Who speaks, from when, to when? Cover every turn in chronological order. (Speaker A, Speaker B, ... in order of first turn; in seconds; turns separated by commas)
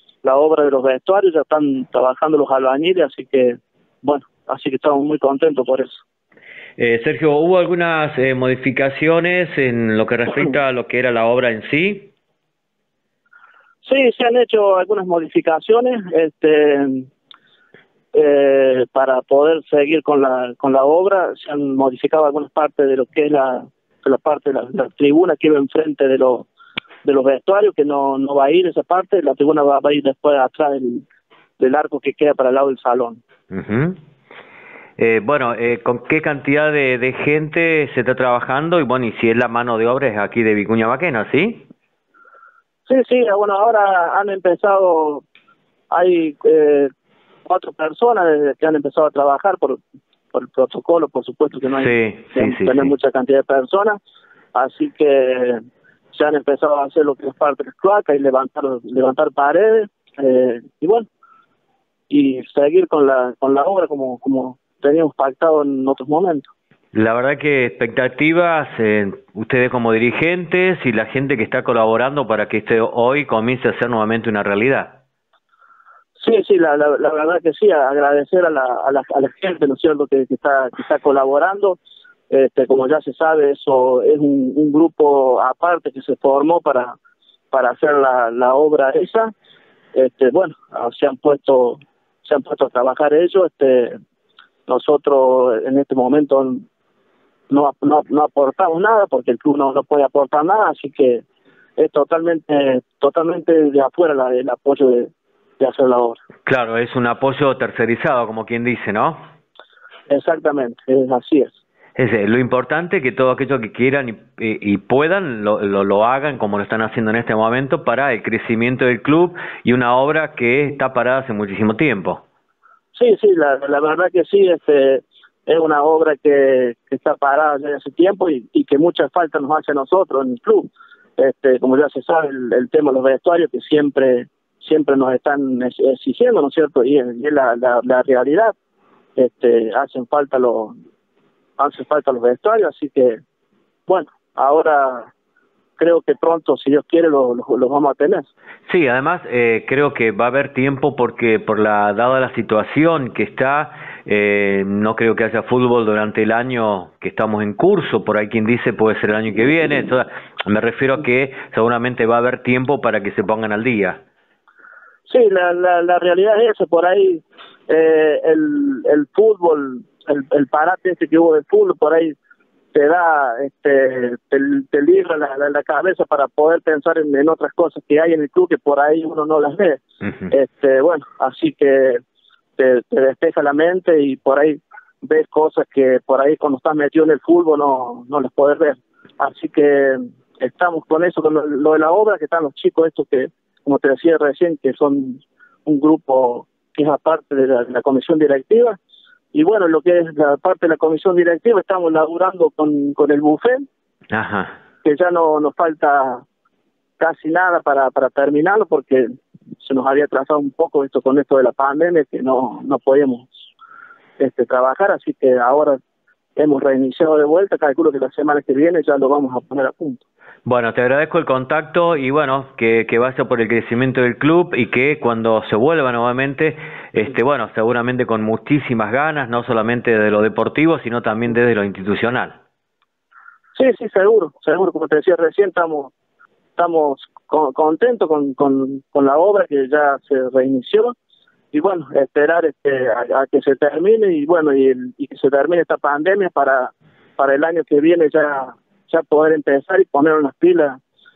Speaker A: 0.2-6.0, Speaker B: 6.8-12.1, Speaker A: 13.8-17.1, Speaker A: 18.1-26.5, Speaker A: 27.0-31.0, Speaker A: 31.6-33.2, Speaker B: 33.5-34.0, Speaker B: 35.0-41.6, Speaker A: 42.9-45.2, Speaker A: 45.9-46.9, Speaker A: 47.4-49.8, Speaker A: 50.3-54.0, Speaker B: 51.8-52.9, Speaker A: 54.5-55.6, Speaker A: 56.1-61.0, Speaker A: 62.1-66.5, Speaker B: 66.9-75.0, Speaker A: 76.2-81.8, Speaker A: 82.3-86.9, Speaker A: 87.5-89.3, Speaker A: 89.9-94.0, Speaker A: 94.7-96.6, Speaker A: 97.5-101.2, Speaker A: 101.8-106.2, Speaker B: 106.5-109.2, Speaker A: 110.1-111.5, Speaker B: 112.0-122.2, Speaker A: 122.9-138.5, Speaker A: 139.2-140.7, Speaker A: 141.6-143.2, Speaker A: 143.9-145.1, Speaker A: 145.8-148.3, Speaker B: 148.7-164.0, Speaker A: 165.1-172.1, Speaker A: 172.7-182.0, Speaker A: 182.6-198.8, Speaker A: 199.3-203.6, Speaker B: 204.1-204.5, Speaker A: 204.8-206.2, Speaker A: 207.0-213.3, Speaker A: 214.2-215.8, Speaker A: 216.3-220.0, Speaker B: 220.4-232.4, Speaker A: 233.5-235.9, Speaker A: 236.6-240.9, Speaker A: 241.5-250.8